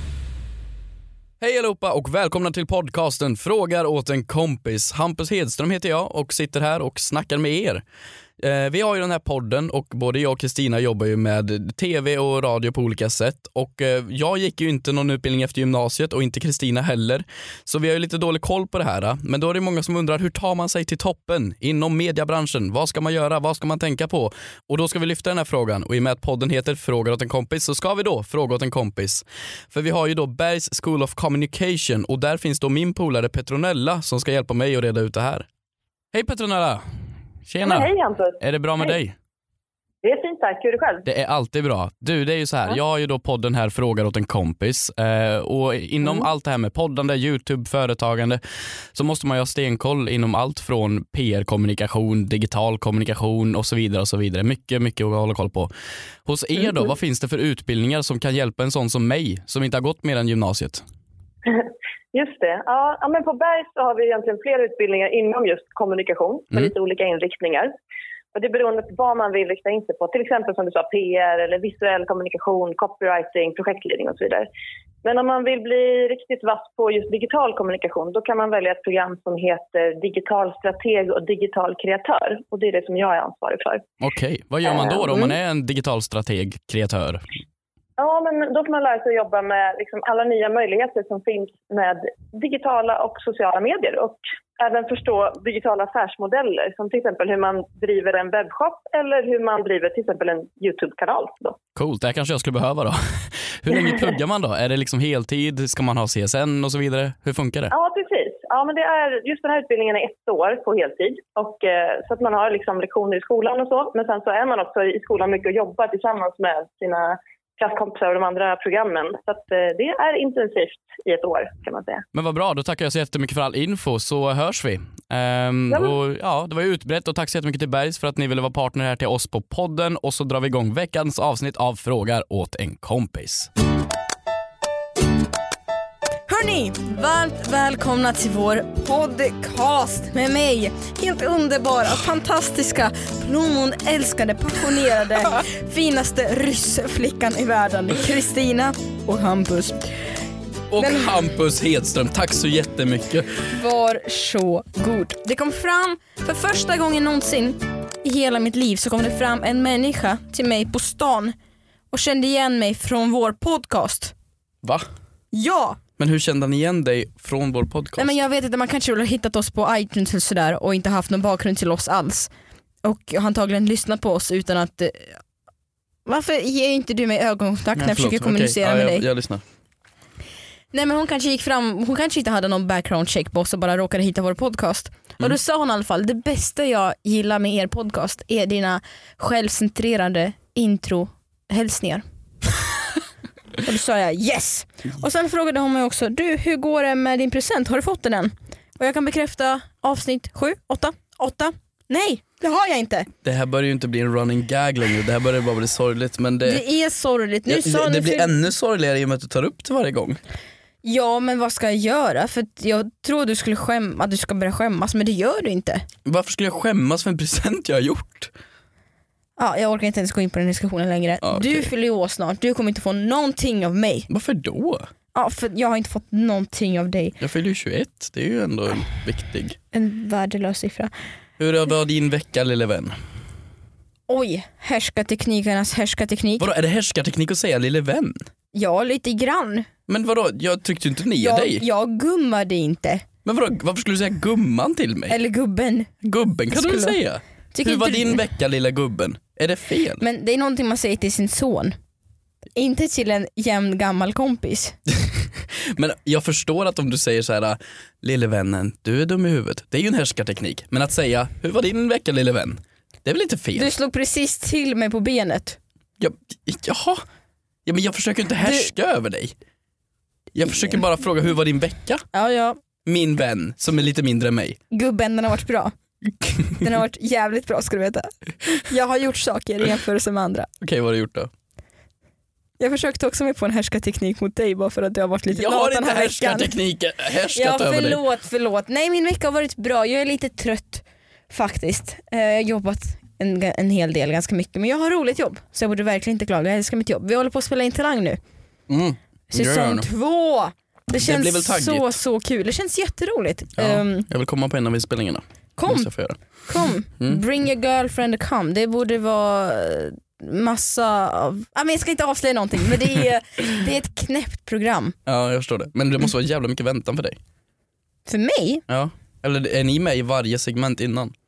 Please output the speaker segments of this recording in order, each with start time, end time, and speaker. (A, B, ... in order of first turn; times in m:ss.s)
0:01.4-0:07.8 A
0:08.4-0:35.5 A
0:36.1-0:36.8 A
0:37.4-0:39.2 A
0:37.6-0:38.4 B
0:40.0-0:41.0 B
0:41.0-0:48.4 A
0:48.9-0:55.7 A
0:56.2-1:00.8 A
1:01.4-1:07.7 B
1:08.3-1:14.5 B
1:15.0-1:23.8 B
1:24.0-1:27.2 A
1:24.6-1:25.1 B
1:28.0-1:41.6 B
1:41.8-1:47.7 A
1:47.7-2:02.0 B
2:02.1-2:13.5 A
2:16.3-2:29.9 C
2:30.7-2:33.3 A
2:30.8-2:31.2 C
2:33.5-2:41.3 C
2:41.9-2:44.1 C
2:45.3-2:45.8 C
2:46.0-2:48.2 A
2:48.0-2:52.3 C
2:52.8-2:55.2 C
2:56.0-2:59.0 C
2:57.8-2:59.4 A
3:00.7-3:12.0 C
3:13.6-3:23.1 C
3:23.2-3:26.6 A
3:26.4-3:28.4 C
3:27.5-3:30.2 A
3:30.8-3:35.8 C
3:36.0-3:38.3 A
3:39.4-3:44.1 C
3:41.2-3:41.7 A
3:44.1-3:44.9 A
3:45.1-3:47.2 C
3:47.2-3:49.6 A
3:49.7-3:50.9 C
3:51.4-3:52.9 A
3:54.1-3:56.5 C
3:56.4-3:58.2 A
3:58.5-3:59.7 C
3:59.9-4:01.6 A
4:01.2-4:03.0 C
4:03.2-4:05.2 A
4:05.1-4:05.9 C
4:06.0-4:10.0 A
4:06.5-4:07.0 C
4:07.5-4:08.2 C
4:10.0-4:11.8 C
4:12.5-4:14.8 C
4:15.5-4:23.7 A
4:23.6-4:25.6 C
4:26.0-4:27.0 A
4:27.6-4:29.3 A
4:28.4-4:28.7 C
4:30.3-4:32.0 A
4:32.1-4:32.6 C
4:32.8-4:34.6 A
4:34.7-4:35.7 C
4:36.4-4:40.5 C
4:40.6-4:41.3 A
4:42.6-4:46.6 C
4:45.3-4:48.0 A
4:47.3-4:58.2 C
4:58.7-4:59.9 A
4:59.3-5:04.1 C
5:01.0-5:02.0 A
5:03.6-5:06.2 A
5:05.6-5:05.9 C
5:06.4-5:14.9 C
5:15.0-5:17.2 A
5:18.1-5:18.6 C
5:18.7-5:21.1 A